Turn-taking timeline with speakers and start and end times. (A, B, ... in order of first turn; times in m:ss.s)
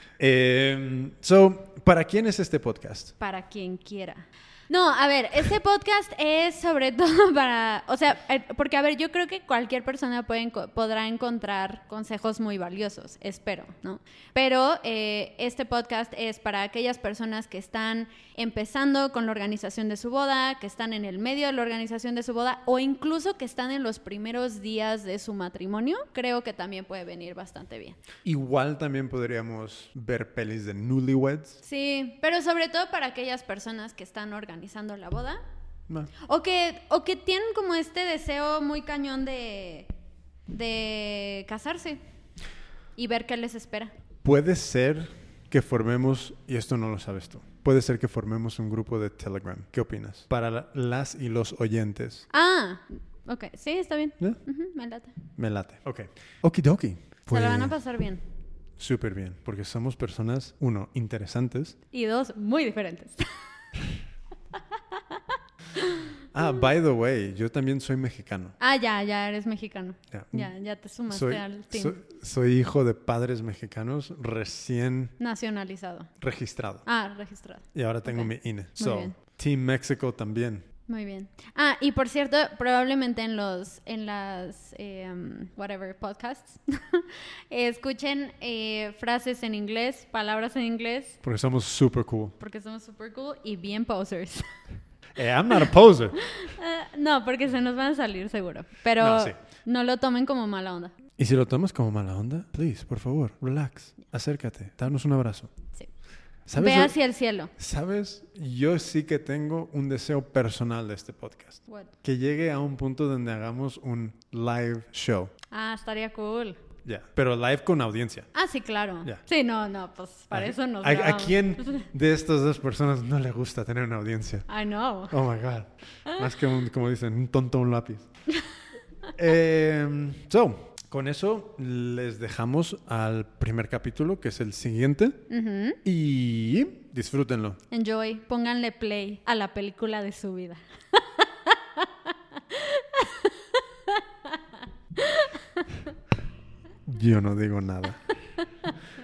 0:00.2-0:03.1 A
0:03.2-0:28.0 B
0:28.2-0:31.6 A
0:31.6-0:35.4 B
0:36.2-0:39.9 B
0:40.5-0:42.0 B
0:43.0-0:43.9 B
0:44.2-0:52.3 A
0:52.3-0:55.2 B
0:55.4-0:57.8 A
0:57.3-0:58.2 B
0:58.8-1:01.7 A
1:01.9-1:03.3 B
1:04.9-1:05.2 B
1:05.7-1:06.0 B
1:06.3-1:08.6 A
1:08.6-1:12.0 B
1:10.1-1:10.5 A
1:11.1-1:15.1 A
1:15.2-1:16.1 B
1:16.2-1:16.8 A
1:16.8-1:19.1 B
1:17.7-1:20.6 A
1:20.9-1:31.2 B
1:31.2-1:32.4 A
1:32.4-1:34.4 B
1:35.2-1:36.2 A
1:36.2-1:40.9 B
1:39.0-1:39.4 A
1:41.2-1:45.5 A
1:46.5-1:47.0 A
1:46.6-1:47.5 B
1:47.6-1:55.3 A
1:55.5-1:56.6 B
1:56.8-1:58.3 A
1:58.3-2:01.9 B
2:00.3-2:04.4 A
2:04.5-2:05.1 B
2:05.1-2:08.0 A
2:09.1-2:15.2 A
2:15.3-2:15.8 B
2:15.8-2:17.6 A
2:17.7-2:24.4 B
2:25.0-2:25.9 B
2:26.8-2:28.0 A
2:28.4-2:28.7 B